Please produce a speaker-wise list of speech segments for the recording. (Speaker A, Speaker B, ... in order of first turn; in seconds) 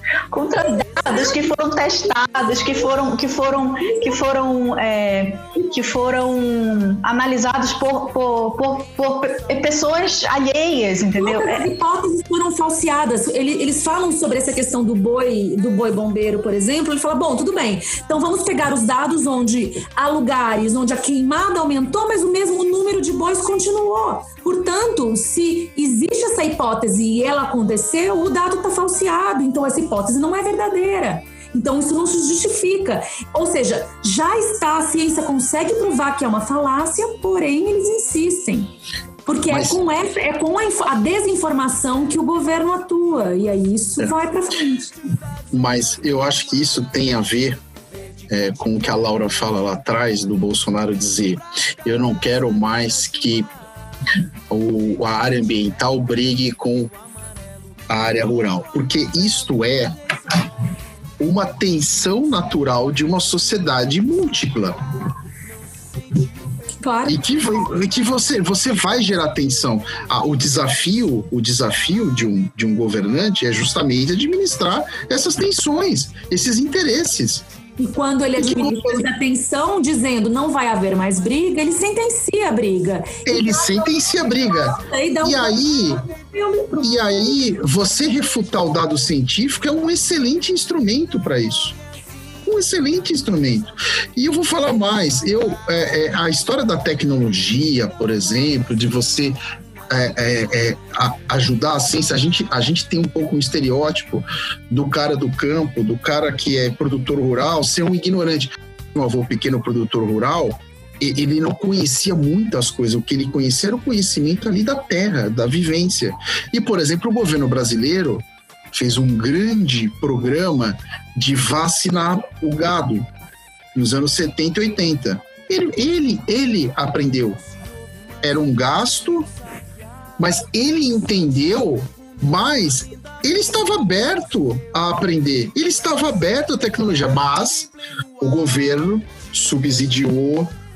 Speaker A: 0.3-11.7
Speaker B: 11.2-38.7, 39.3-44.9, 66.8-67.2, 77.8-84.0, 84.7-87.0
Speaker C: 39.5-39.8, 45.5-47.6, 48.3-53.5, 54.5-56.9, 57.9-59.9, 61.2-64.8, 67.0-77.5, 78.4-79.1, 83.3-86.0, 86.8-91.8, 92.5-99.4, 99.9-123.1, 123.8-127.4, 128.2-129.3, 130.2-140.5